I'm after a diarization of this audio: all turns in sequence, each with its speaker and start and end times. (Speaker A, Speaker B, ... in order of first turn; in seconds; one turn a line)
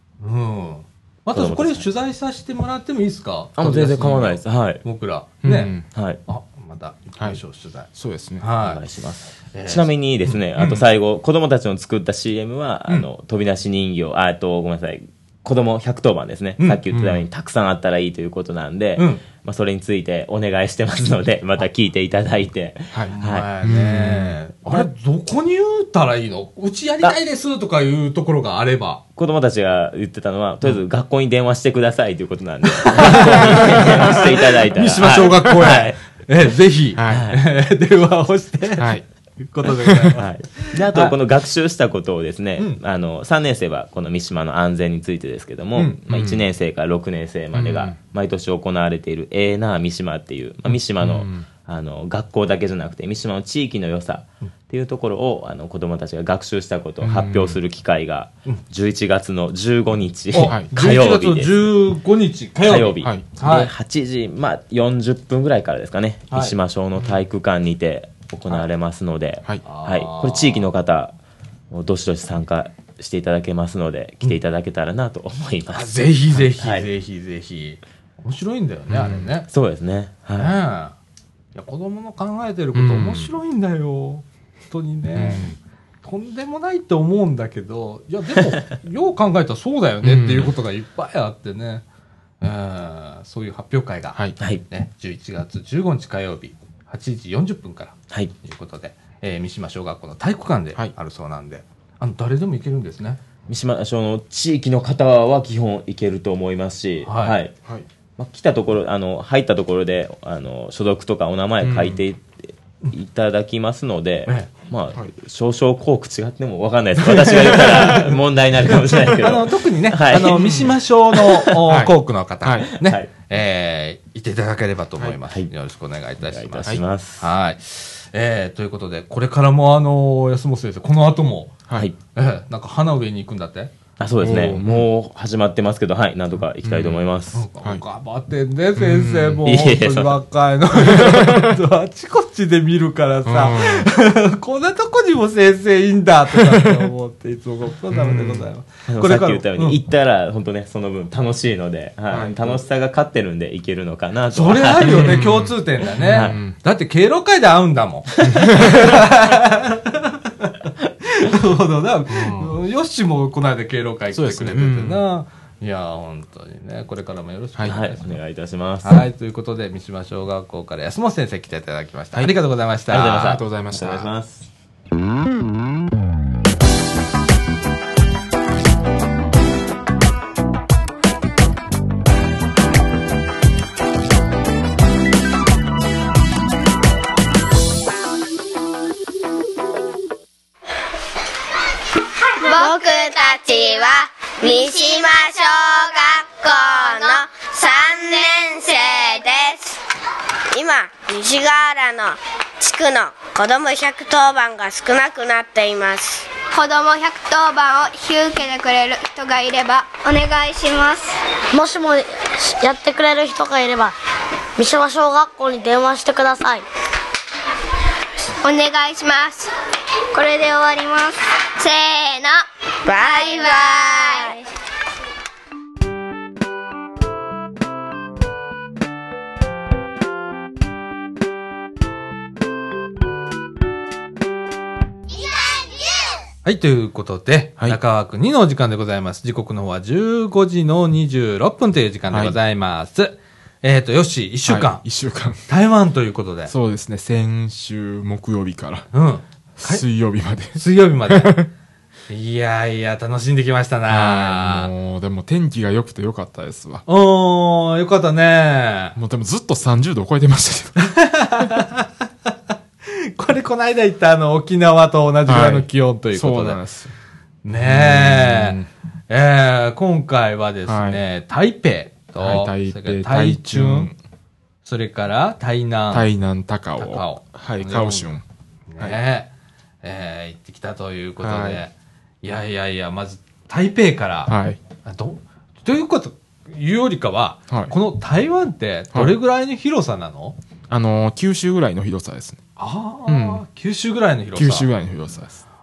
Speaker A: 0.2-8.8
Speaker B: 1.3-1.9
Speaker B: 3.6-4.8
Speaker C: 5.4-5.9
Speaker B: 5.9-6.2
Speaker C: 7.9-8.4
Speaker B: 8.6-23.5
Speaker A: 9.5-10.8
Speaker C: 16.9-17.2
Speaker A: 19.0-19.2
Speaker C: 22.9-24.8
Speaker A: 23.1-29.0
Speaker B: 29.2-36.0
Speaker A: 32.8-41.1
Speaker C: 33.1-34.0
Speaker C: 37.0-37.3
Speaker B: 37.1-37.4
Speaker C: 38.8-39.0
Speaker C: 39.6-40.1
Speaker B: 40.2-61.8
Speaker C: 46.1-46.4
Speaker C: 47.5-48.0
Speaker C: 50.7-51.5
Speaker C: 57.0-57.6
Speaker A: 60.3-63.7
Speaker C: 60.4-60.7
Speaker B: 62.6-71.2
Speaker A: 66.3-66.5
Speaker A: 69.6-70.7
Speaker B: 71.7-76.9
Speaker A: 75.7-79.5
Speaker C: 78.9-79.3
Speaker B: 79.5-80.6
Speaker A: 80.4-81.0
Speaker A: 81.5-91.8
Speaker C: 82.7-83.3
Speaker C: 85.2-85.5
Speaker C: 90.0-90.5
Speaker A: 92.4-103.2
Speaker B: 103.5-107.5
Speaker A: 107.0-107.4
Speaker B: 108.2-121.5
Speaker C: 111.6-112.0
Speaker A: 117.0-118.1
Speaker A: 119.0-131.6
Speaker C: 120.4-120.7
Speaker C: 121.7-121.9
Speaker C: 122.4-122.7
Speaker B: 122.8-123.1
Speaker B: 126.3-127.3
Speaker A: 132.2-133.7
Speaker B: 134.0-137.4
Speaker C: 134.2-134.9
Speaker C: 136.6-137.0
Speaker A: 137.3-149.8
Speaker C: 138.8-139.4
Speaker B: 139.4-140.2
Speaker C: 140.9-141.6
Speaker C: 143.3-143.9
Speaker C: 146.5-146.8
Speaker C: 147.9-148.5
Speaker B: 148.9-155.3
Speaker C: 152.1-152.6
Speaker A: 154.3-168.2
Speaker C: 154.8-156.6
Speaker B: 156.0-156.4
Speaker B: 158.2-159.0
Speaker C: 158.2-158.8
Speaker C: 162.1-162.6
Speaker C: 164.1-165.0
Speaker B: 167.7-169.0
Speaker A: 168.8-173.4
Speaker B: 172.9-174.5
Speaker C: 173.1-174.1
Speaker D: 192.4-192.9
Speaker E: 192.4-199.8
Speaker E: 200.5-206.3
Speaker D: 206.5-211.2
Speaker F: 211.5-214.0
Speaker F: 214.6-216.7
Speaker D: 218.4-219.5
Speaker D: 220.1-222.4
Speaker E: 222.9-224.3
Speaker D: 222.9-224.4
Speaker A: 236.4-244.8
Speaker C: 242.1-242.4
Speaker C: 244.5-245.4
Speaker A: 245.5-246.5
Speaker C: 246.5-248.9
Speaker A: 248.9-249.8
Speaker C: 249.6-251.5
Speaker A: 250.6-251.4
Speaker A: 252.1-254.7
Speaker C: 253.9-256.8
Speaker A: 256.9-259.0
Speaker C: 259.0-260.8
Speaker A: 260.8-261.9
Speaker A: 262.9-266.6
Speaker C: 265.3-266.9
Speaker A: 267.4-268.6
Speaker C: 267.6-268.7
Speaker A: 269.1-273.9
Speaker C: 270.7-271.0
Speaker C: 272.2-274.0
Speaker A: 274.6-276.1
Speaker C: 275.9-278.2
Speaker A: 276.8-278.1
Speaker A: 278.7-279.3
Speaker A: 279.8-284.3
Speaker C: 281.2-281.6
Speaker C: 284.3-284.6
Speaker A: 284.9-290.4
Speaker C: 288.9-289.2
Speaker C: 290.7-292.4
Speaker A: 292.6-294.7
Speaker C: 293.1-293.4
Speaker C: 294.4-295.4